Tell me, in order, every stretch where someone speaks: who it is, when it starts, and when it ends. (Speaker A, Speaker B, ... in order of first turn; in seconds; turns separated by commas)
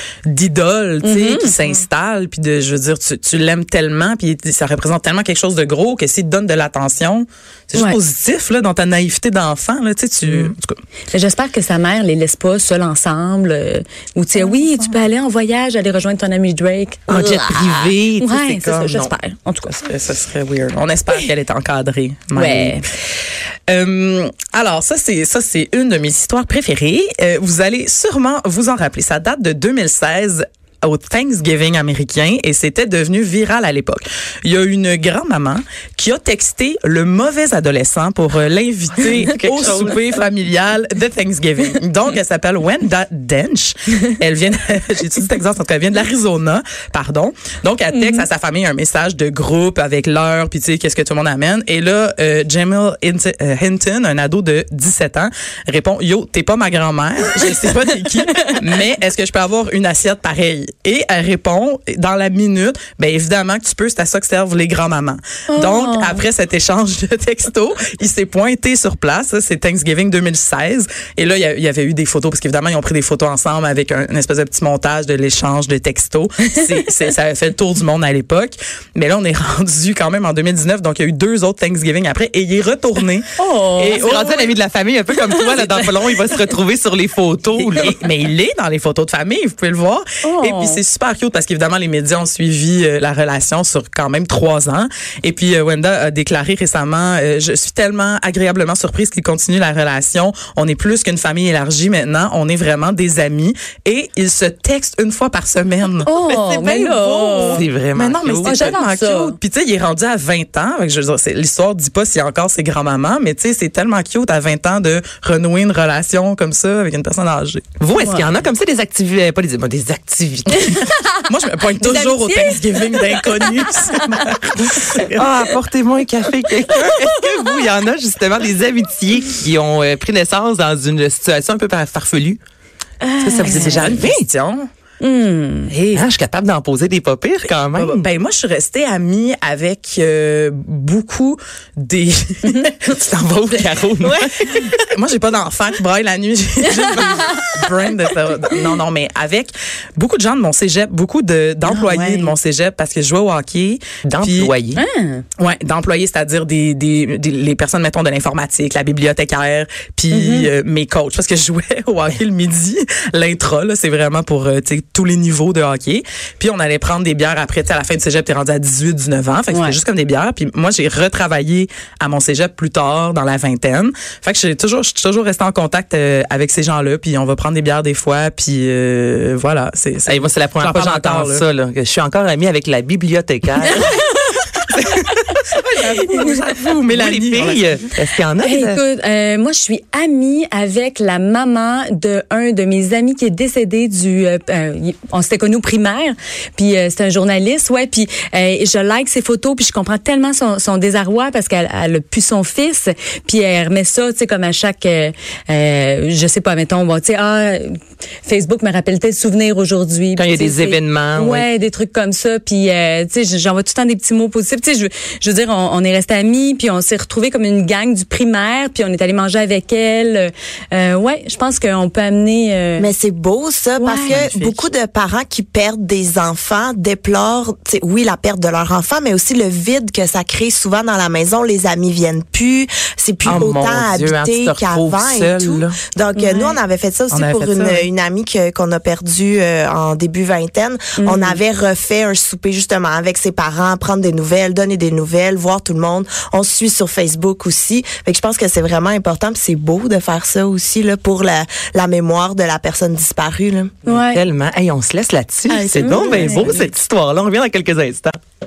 Speaker A: 0.3-10.8, Speaker B: 1.0-1.6, Speaker B: 11.1-19.8, Speaker A: 14.4-15.0, Speaker C: 17.1-19.1, Speaker A: 19.7-22.8, Speaker B: 22.3-22.8, Speaker A: 23.7-83.3, Speaker C: 39.0-40.2, Speaker B: 47.9-48.2, Speaker B: 65.5-66.2, Speaker B: 83.3-84.3, Speaker A: 83.8-84.2, Speaker C: 83.8-88.0, Speaker A: 87.6-106.1, Speaker B: 90.2-90.8, Speaker B: 106.0-107.6, Speaker D: 106.4-107.4, Speaker C: 107.2-108.7, Speaker A: 107.9-117.7, Speaker B: 108.4-109.3, Speaker C: 117.8-120.6, Speaker B: 118.0-118.3, Speaker A: 120.5-125.2, Speaker B: 121.8-124.0, Speaker C: 124.7-132.4, Speaker B: 133.0-134.0, Speaker C: 133.2-134.3, Speaker A: 133.4-134.7, Speaker B: 135.0-135.7, Speaker A: 135.7-136.0, Speaker C: 135.9-138.0, Speaker A: 137.7-142.9, Speaker C: 142.9-144.7, Speaker D: 144.0-144.3, Speaker A: 144.7-154.5, Speaker B: 151.7-152.3, Speaker C: 154.0-154.8, Speaker B: 154.8-155.2, Speaker A: 155.4-181.4, Speaker B: 160.1-160.5, Speaker B: 169.5-169.8, Speaker C: 180.1-184.0, Speaker C: 184.8-185.2, Speaker A: 185.6-187.6, Speaker C: 186.2-188.8, Speaker B: 188.4-222.9, Speaker C: 210.2-211.5, Speaker D: 222.8-253.8, Speaker B: 223.8-224.2, Speaker C: 224.1-224.7, Speaker A: 224.1-224.5, Speaker C: 233.2-235.8, Speaker B: 236.2-236.6, Speaker A: 237.1-237.9, Speaker B: 241.0-241.4, Speaker C: 253.8-258.2, Speaker B: 253.8-254.2, Speaker B: 255.5-256.7